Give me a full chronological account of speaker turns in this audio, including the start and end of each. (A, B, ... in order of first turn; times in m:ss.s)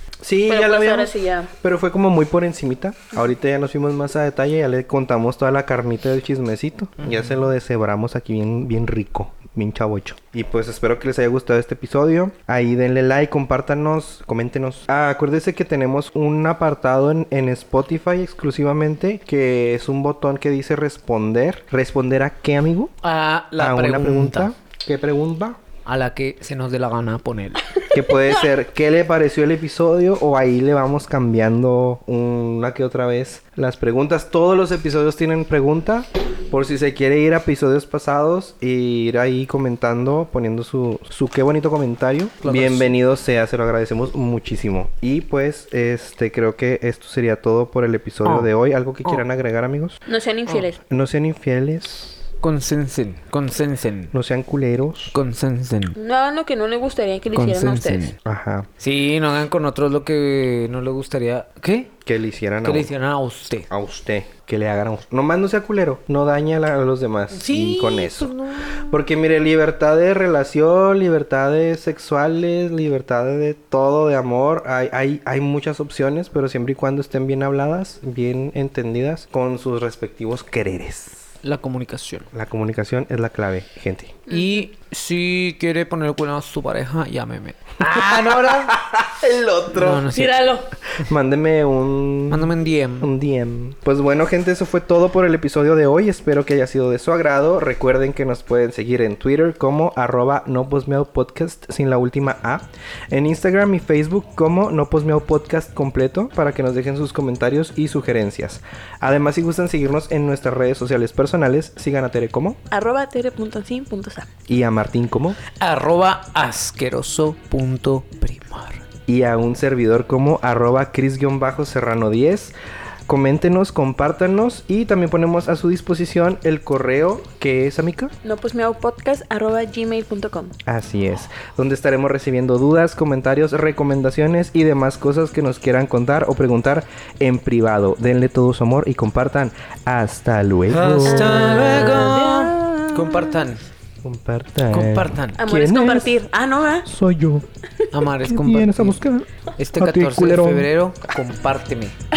0:00.2-0:22.9 A
0:00.5-0:01.5 B
0:07.0-0:07.3 C
0:23.0-0:24.5 C
0:23.6-0:25.6 A
0:25.9-0:27.8 C
0:27.9-0:50.0 A
0:42.4-0:43.0 C
0:48.2-0:48.5 C
0:50.1-0:50.8 B
0:50.8-0:52.2 A
0:52.4-0:54.1 C
0:54.1-0:55.2 A
0:55.1-0:56.0 C
0:56.0-0:58.1 B
0:57.3-0:58.2 C
0:58.2-0:58.7 A
0:58.8-1:01.9 C
1:02.1-1:02.9 A
1:02.6-1:03.7 C
1:03.7-1:21.3 A
1:07.3-1:09.0 C
1:21.4-1:22.3 C
1:22.3-1:24.2 A
1:24.3-1:24.6 B
1:24.3-1:28.7 C
1:27.8-1:30.1 A
1:29.8-1:30.5 C
1:30.1-1:30.7 B
1:30.9-1:52.6 A
1:32.3-1:33.1 C
1:52.7-1:54.3 B
1:54.5-1:55.4 A
1:55.6-1:58.8 C
1:59.1-2:02.5 A
2:03.1-2:08.1 A
2:08.2-2:10.6 B
2:10.7-2:22.2 A
2:20.7-2:23.7 C
2:21.1-2:23.2 B
2:24.0-2:26.2 A
2:24.7-2:25.4 C
2:25.4-2:26.9 B
2:26.9-2:27.4 A
2:27.9-2:29.0 C
2:28.2-2:30.7 A
2:29.6-2:32.0 C